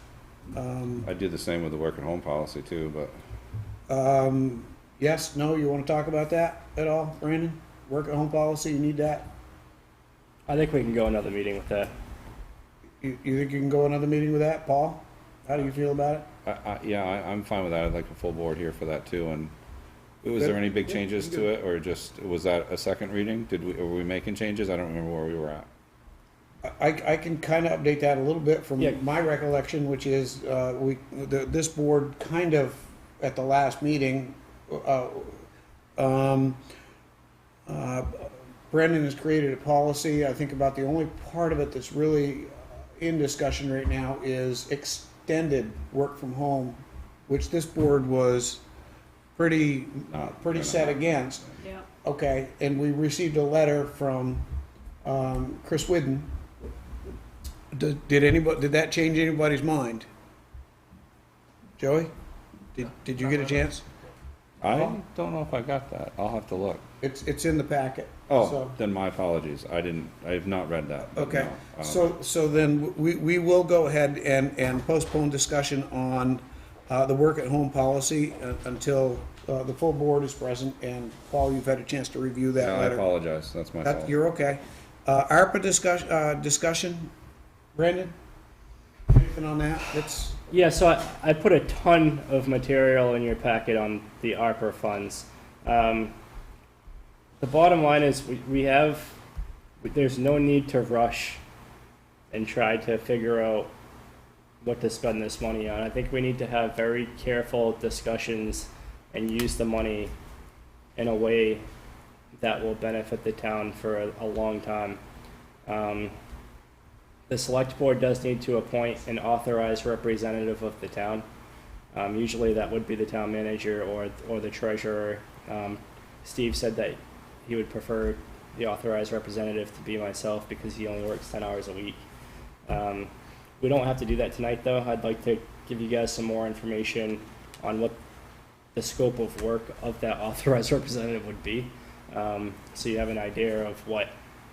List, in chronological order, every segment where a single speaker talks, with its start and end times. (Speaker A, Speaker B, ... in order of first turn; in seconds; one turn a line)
Speaker A: 0.5-1.1
Speaker B: 1.0-3.1
Speaker A: 3.9-9.3
Speaker C: 10.5-11.9
Speaker A: 13.0-16.3
Speaker B: 16.4-19.5
Speaker B: 20.2-25.7
Speaker A: 20.4-21.4
Speaker A: 26.6-35.5
Speaker A: 36.0-36.6
Speaker A: 37.7-48.6
Speaker A: 49.4-51.5
Speaker B: 50.1-51.5
Speaker A: 52.0-54.5
Speaker A: 55.0-56.3
Speaker A: 57.7-60.1
Speaker A: 61.8-62.1
Speaker A: 62.7-63.8
Speaker B: 64.6-66.8
Speaker A: 67.0-68.8
Speaker B: 68.3-72.1
Speaker A: 71.2-83.1
Speaker B: 82.6-84.1
Speaker A: 83.8-87.1
Speaker A: 87.8-88.1
Speaker A: 89.1-90.4
Speaker C: 90.5-96.1
Speaker C: 97.4-99.2
Speaker C: 99.8-101.4
Speaker C: 102.3-103.7
Speaker C: 104.6-110.1
Speaker C: 111.0-111.7
Speaker C: 112.3-115.0
Speaker C: 115.7-116.1
Speaker C: 117.3-121.2
Speaker C: 121.9-132.0
Speaker C: 132.7-138.0
Speaker C: 138.8-144.1